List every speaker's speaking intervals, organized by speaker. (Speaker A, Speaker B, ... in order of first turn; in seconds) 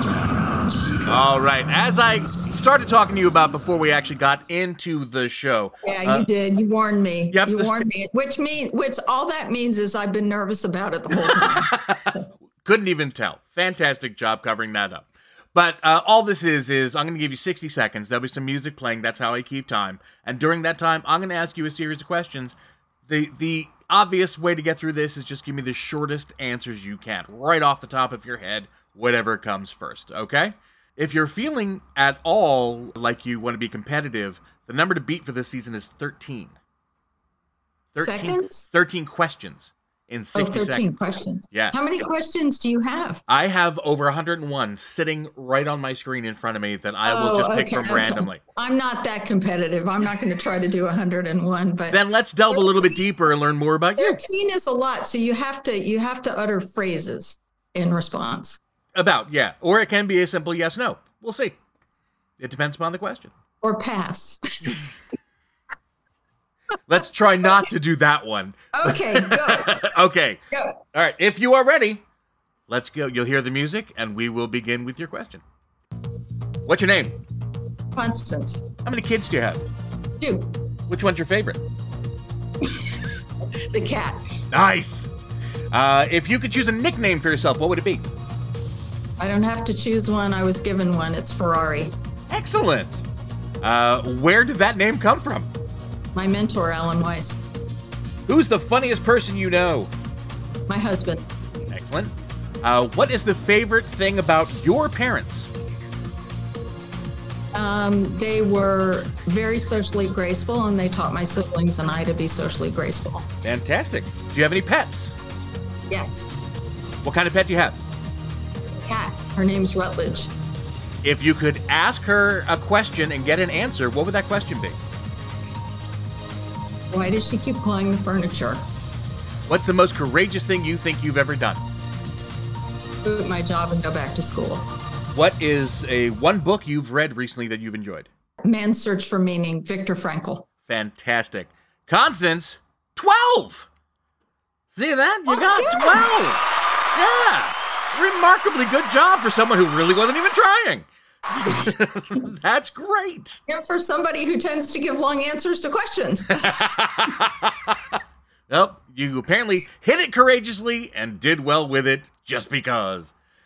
Speaker A: 1.0-6.3, 7.3-7.8, 11.3-22.6, 23.1-36.5, 37.9-40.9, 41.5-41.8, 43.3-48.4, 51.9-54.2, 59.0-61.5, 62.4-63.3, 66.9-72.0, 72.7-75.4, 76.6-77.2, 78.8-79.7, 80.9-81.6, 84.5-85.1, 85.7-88.1, 92.3-93.0, 93.6-95.5, 98.3-99.9, 101.7-105.5, 113.4-115.1, 117.0-117.8, 121.0-124.8, 129.5-131.6, 135.1-138.1, 140.7-143.7, 144.7-153.4, 156.3-163.1
Speaker B: 5.8-12.2, 38.0-38.7, 40.3-43.2, 47.0-53.0, 54.0-58.6, 63.6-64.8, 68.7-69.8, 70.5-70.8, 77.9-78.6, 80.2-80.5, 82.6-82.9, 83.7-84.2, 89.2-91.9, 96.1-97.4, 100.7-101.2, 107.5-113.3, 115.9-116.3, 118.8-120.3, 126.9-128.7, 133.0-134.7, 138.4-140.5, 145.3-146.1, 153.5-156.7